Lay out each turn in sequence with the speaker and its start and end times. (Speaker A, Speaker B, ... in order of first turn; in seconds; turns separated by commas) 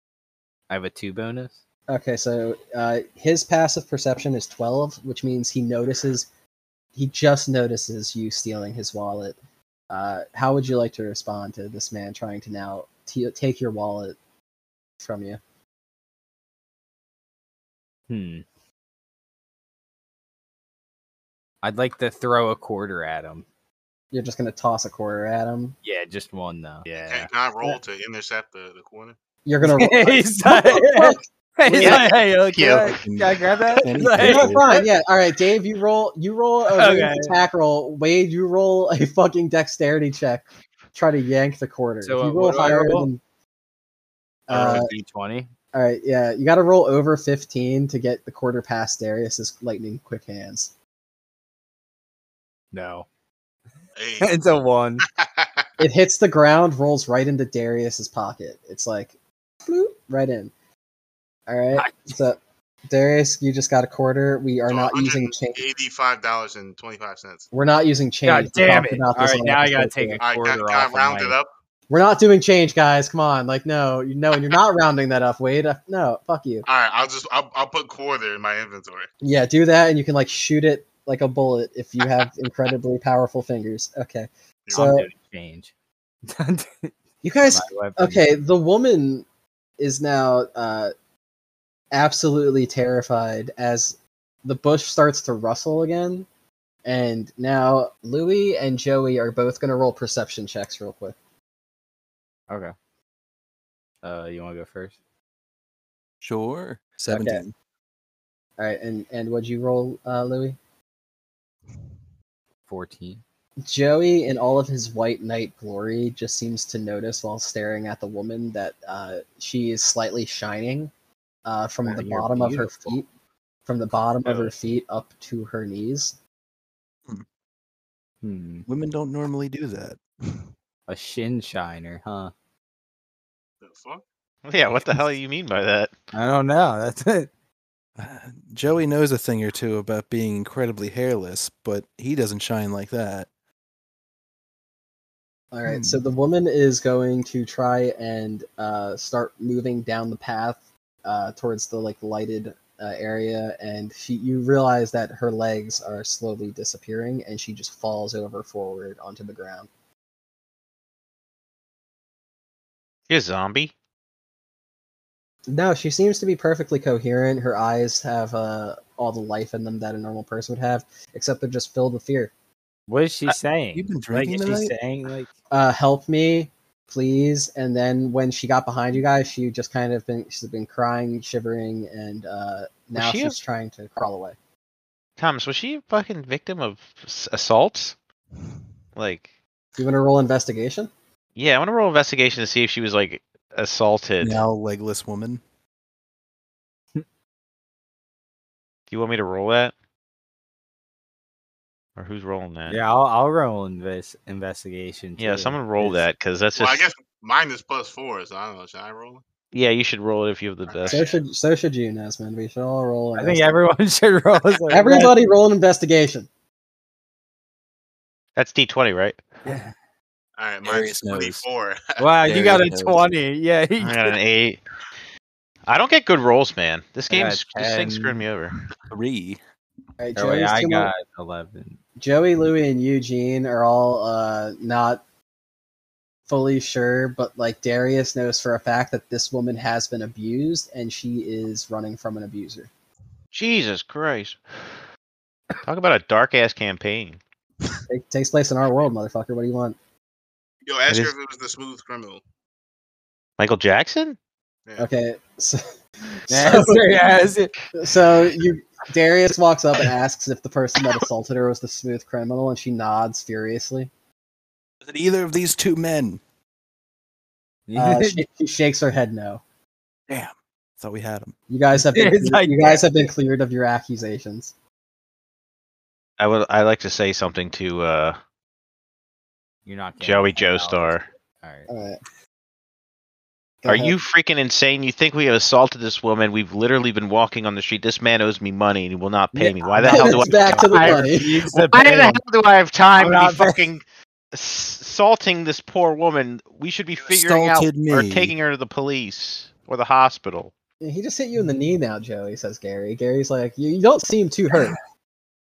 Speaker A: 0.7-1.6, Speaker B: 1.9-6.3, Speaker B: 6.9-9.4, Speaker B: 9.9-14.2, Speaker B: 15.0-15.4, Speaker A: 18.1-18.4, Speaker A: 21.6-23.4, Speaker B: 24.1-25.8, Speaker A: 25.8-27.3, Speaker C: 26.9-29.1, Speaker B: 29.4-32.0, Speaker A: 29.6-34.8, Speaker D: 31.7-33.0, Speaker E: 33.0-34.6, Speaker B: 34.1-43.2, Speaker A: 36.7-37.3, Speaker A: 42.0-43.1, Speaker B: 44.5-44.9, Speaker A: 44.5-45.5, Speaker B: 45.7-50.7, Speaker A: 52.7-53.0, Speaker C: 54.0-54.4, Speaker A: 54.2-55.0, Speaker C: 55.0-55.7, Speaker B: 55.8-60.5, Speaker B: 61.5-65.6, Speaker A: 61.7-62.1, Speaker C: 64.7-67.5, Speaker B: 67.5-70.2, Speaker A: 68.2-71.3, Speaker C: 70.2-71.5, Speaker B: 71.9-76.7, Speaker C: 76.7-79.1, Speaker B: 79.2-85.1, Speaker C: 84.7-84.9, Speaker A: 84.7-85.7, Speaker A: 86.2-86.9, Speaker B: 87.2-89.2, Speaker A: 87.5-88.2, Speaker B: 89.8-90.9, Speaker B: 91.9-96.3, Speaker B: 96.8-101.2, Speaker A: 104.0-105.0, Speaker E: 106.2-107.5, Speaker B: 107.1-107.4, Speaker B: 108.6-110.6, Speaker A: 112.7-113.2, Speaker B: 113.6-120.9, Speaker B: 121.5-123.1, Speaker A: 121.8-122.9, Speaker B: 123.7-126.1, Speaker A: 128.2-128.6, Speaker E: 128.7-130.5, Speaker A: 130.9-132.3, Speaker C: 133.6-134.0, Speaker D: 134.4-135.9, Speaker A: 136.1-137.3, Speaker E: 138.0-143.3, Speaker B: 145.5-159.7, Speaker E: 145.7-146.0, Speaker D: 163.1-163.7, Speaker B: 165.5-172.3, Speaker A: 172.9-175.3, Speaker E: 173.7-174.7, Speaker B: 175.5-184.4, Speaker D: 182.9-183.3, Speaker D: 185.2-187.9, Speaker D: 188.9-189.2, Speaker B: 189.8-190.9, Speaker D: 191.3-194.4, Speaker E: 194.2-195.4, Speaker D: 198.9-199.7, Speaker D: 202.0-202.8, Speaker A: 202.7-206.0, Speaker D: 205.2-206.8, Speaker C: 206.5-209.2, Speaker D: 209.5-211.0, Speaker C: 210.7-211.2, Speaker B: 210.9-213.6, Speaker A: 213.2-215.1, Speaker B: 214.7-216.3, Speaker D: 218.3-219.2, Speaker A: 219.4-219.7, Speaker C: 220.4-222.1, Speaker E: 220.6-221.4, Speaker A: 222.0-224.1, Speaker E: 222.2-223.1, Speaker D: 223.8-224.6, Speaker D: 225.7-228.5, Speaker A: 227.1-228.2, Speaker E: 228.9-229.4, Speaker B: 230.0-230.9, Speaker A: 230.2-231.8, Speaker B: 232.0-235.0, Speaker B: 236.3-242.7, Speaker D: 243.3-244.7, Speaker D: 245.6-247.2, Speaker B: 247.9-249.8, Speaker C: 250.7-252.2, Speaker D: 250.9-251.1, Speaker D: 253.4-254.2, Speaker B: 254.8-255.6, Speaker B: 256.2-257.0, Speaker A: 256.3-257.5, Speaker B: 257.7-263.9, Speaker E: 264.8-266.2, Speaker A: 267.7-268.2, Speaker B: 267.7-269.4, Speaker E: 270.1-271.3, Speaker B: 271.5-274.5, Speaker A: 271.7-272.9, Speaker D: 276.2-278.2, Speaker A: 279.6-281.7, Speaker D: 280.0-281.1, Speaker B: 281.7-282.0, Speaker B: 283.6-283.9, Speaker D: 283.6-293.8, Speaker A: 289.3-292.2, Speaker B: 289.9-291.4, Speaker A: 292.9-293.6, Speaker D: 294.3-300.5, Speaker E: 297.0-298.3, Speaker B: 300.8-304.8